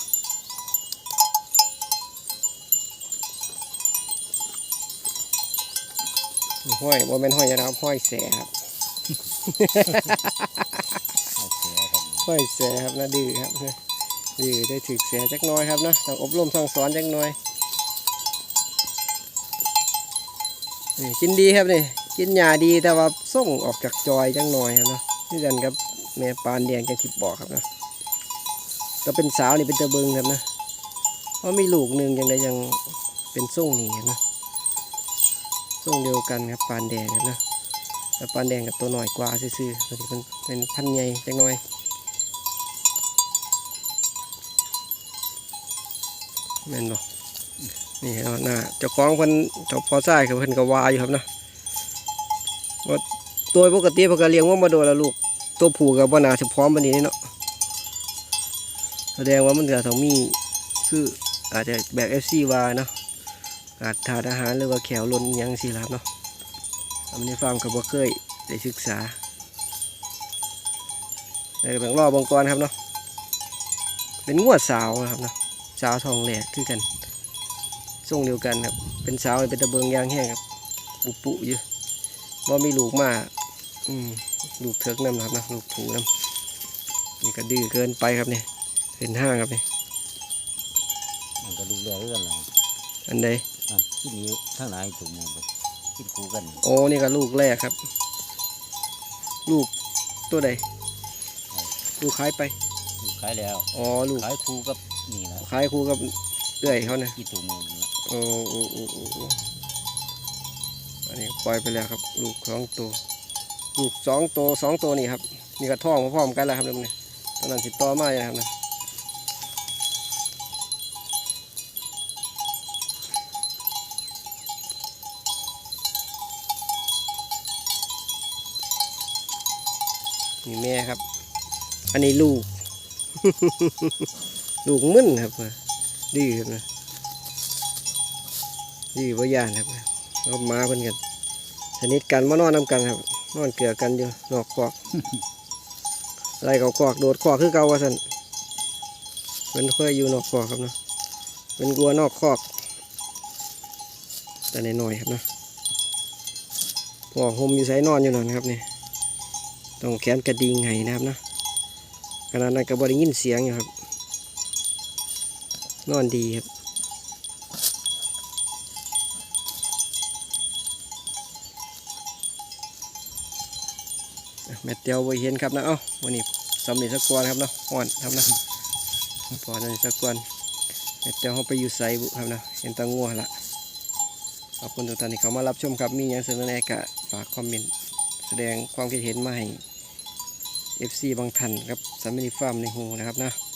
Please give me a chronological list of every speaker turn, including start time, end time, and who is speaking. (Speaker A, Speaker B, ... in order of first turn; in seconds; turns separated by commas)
Speaker A: 6.7-8.5, Speaker A: 9.5-10.7, Speaker B: 11.3-12.3, Speaker A: 12.2-13.8, Speaker A: 14.4-17.4, Speaker A: 21.0-27.6, Speaker A: 29.1-30.4, Speaker A: 31.4-34.2, Speaker A: 35.8-37.4, Speaker A: 38.2-41.6, Speaker A: 46.7-47.0, Speaker A: 48.0-51.3, Speaker A: 52.8-57.1, Speaker A: 59.2-62.9, Speaker A: 63.8-66.0, Speaker A: 67.1-69.2, Speaker A: 71.6-72.7, Speaker A: 74.3-76.9, Speaker A: 78.0-80.4, Speaker A: 81.0-81.6, Speaker A: 82.5-83.3, Speaker A: 83.9-86.1, Speaker A: 87.2-88.5, Speaker A: 89.0-89.6, Speaker B: 91.4-92.5, Speaker A: 93.1-93.5, Speaker B: 93.7-95.5, Speaker B: 96.0-96.7, Speaker A: 96.6-97.8, Speaker A: 99.5-99.7, Speaker A: 100.3-100.6, Speaker A: 102.0-102.5, Speaker B: 103.0-105.5, Speaker A: 103.7-104.3, Speaker A: 105.4-107.2, Speaker B: 106.6-107.9, Speaker A: 108.1-109.4, Speaker A: 111.1-113.0, Speaker A: 113.8-118.5, Speaker A: 130.4-131.0, Speaker A: 131.9-132.5, Speaker A: 133.2-134.1, Speaker A: 134.7-135.6, Speaker A: 136.1-136.7, Speaker A: 138.9-141.0, Speaker A: 141.8-144.8, Speaker A: 146.4-148.0, Speaker A: 149.5-150.8, Speaker A: 151.6-152.5, Speaker A: 154.5-155.2, Speaker A: 157.1-158.7, Speaker A: 159.8-161.2, Speaker A: 162.3-163.7, Speaker A: 165.9-166.5, Speaker A: 174.5-178.4, Speaker A: 179.3-180.3, Speaker A: 181.0-183.3, Speaker A: 184.6-187.7, Speaker A: 188.2-189.6, Speaker A: 190.8-193.4